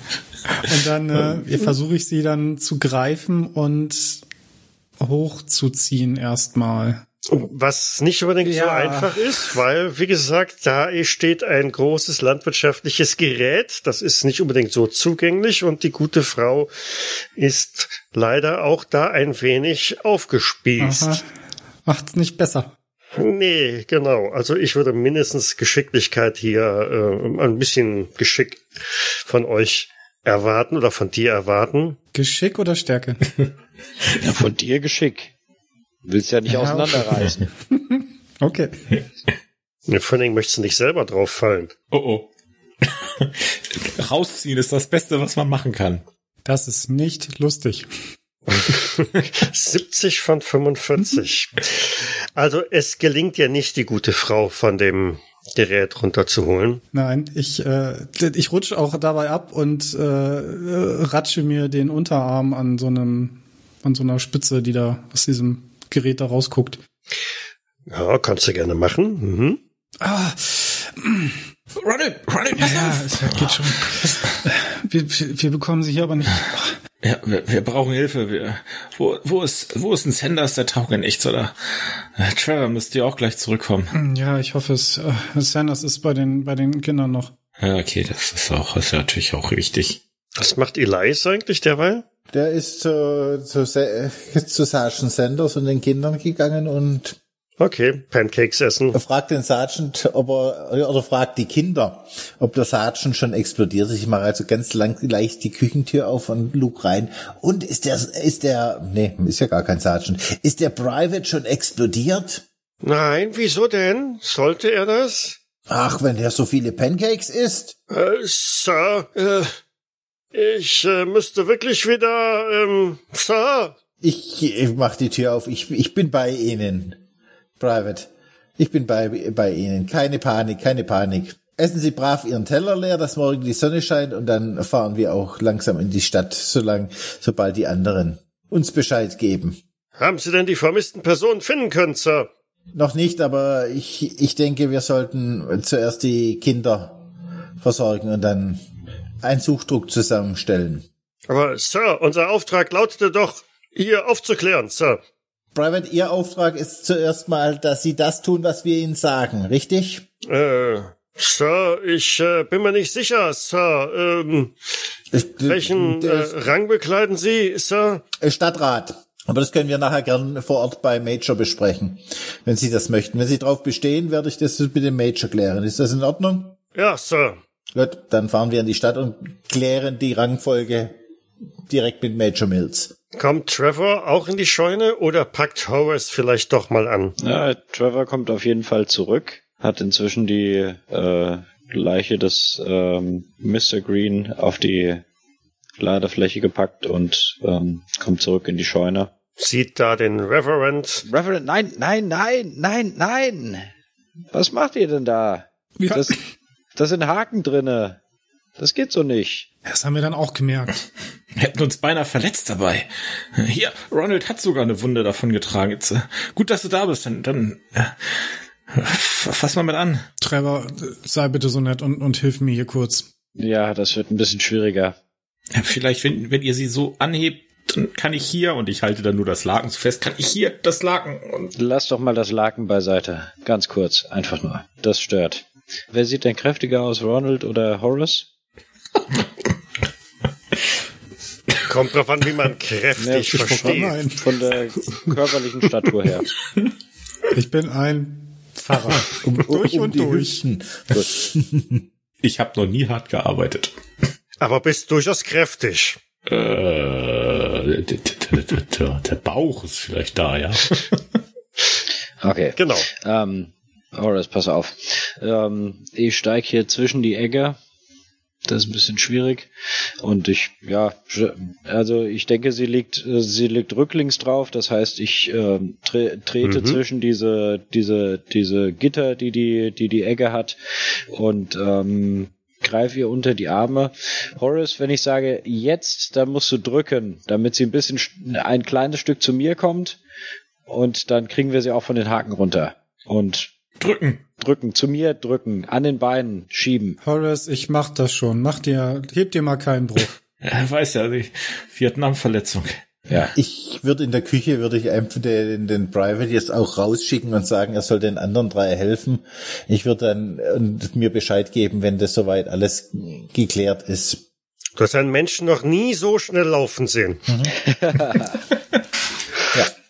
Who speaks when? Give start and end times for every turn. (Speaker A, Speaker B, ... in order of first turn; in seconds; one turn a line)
Speaker A: 0.5-4.2
Speaker B: 0.7-1.4
Speaker A: 5.0-7.0
Speaker C: 7.3-21.2
Speaker A: 8.4-9.6
Speaker A: 20.8-21.2
Speaker A: 21.9-22.7
Speaker C: 23.2-28.6
Speaker C: 29.2-32.0
Speaker A: 32.1-33.2
Speaker D: 34.2-35.3
Speaker D: 36.0-37.5
Speaker A: 36.5-38.7
Speaker C: 39.9-41.7
Speaker B: 41.9-42.3
Speaker B: 42.8-46.0
Speaker A: 46.5-47.9
Speaker C: 48.5-56.8
Speaker A: 56.9-66.8
Speaker C: 67.9-69.6
Speaker A: 70.0-71.4
Speaker B: 71.8-74.4
Speaker A: 72.6-76.8
Speaker B: 77.0-83.9
Speaker A: 83.9-87.3
Speaker B: 87.6-90.0
Speaker C: 90.4-92.0
Speaker E: 92.3-97.2
Speaker C: 97.6-99.0
Speaker E: 98.9-112.4
Speaker C: 112.8-115.4
Speaker E: 115.7-117.7
Speaker C: 117.9-119.5
Speaker C: 120.3-123.8
Speaker E: 124.0-127.0
Speaker E: 127.6-139.6
Speaker C: 140.0-142.3
Speaker E: 142.7-147.0
Speaker E: 147.6-148.6
Speaker E: 149.2-150.8
Speaker C: 151.3-155.0
Speaker E: 155.6-160.1
Speaker C: 160.3-164.5
Speaker E: 165.1-166.4
Speaker C: 165.5-168.0
Speaker E: 168.2-176.6
Speaker C: 176.8-177.4
Speaker E: 177.7-181.0
Speaker E: 181.7-182.9
Speaker C: 183.2-187.2
Speaker D: 187.2-195.0
Speaker D: 195.8-199.1
Speaker C: 199.4-201.0
Speaker D: 201.1-203.7
Speaker D: 204.3-206.2
Speaker A: 205.8-206.1
Speaker D: 206.8-208.0
Speaker D: 208.6-209.5
Speaker A: 209.7-210.8
Speaker B: 211.3-220.0
Speaker A: 220.2-223.1
Speaker D: 223.4-224.9
Speaker B: 225.6-231.5
Speaker D: 231.6-238.3
Speaker C: 241.7-244.0
Speaker D: 243.0-246.3
Speaker A: 243.3-244.2
Speaker A: 247.3-250.4
Speaker E: 249.3-251.8
Speaker D: 250.9-251.2
Speaker B: 252.2-253.7
Speaker C: 254.4-256.0
Speaker B: 256.3-261.2
Speaker D: 262.2-267.6
Speaker C: 262.6-262.9
Speaker D: 268.5-269.5
Speaker D: 270.0-280.6
Speaker C: 276.4-276.8
Speaker D: 281.1-290.0
Speaker D: 290.7-293.5
Speaker B: 293.8-294.2
Speaker D: 294.4-297.0
Speaker A: 297.0-300.1
Speaker B: 300.4-303.3
Speaker E: 303.3-314.2
Speaker C: 314.8-317.2
Speaker E: 317.3-317.6
Speaker D: 317.7-318.4
Speaker B: 318.2-318.8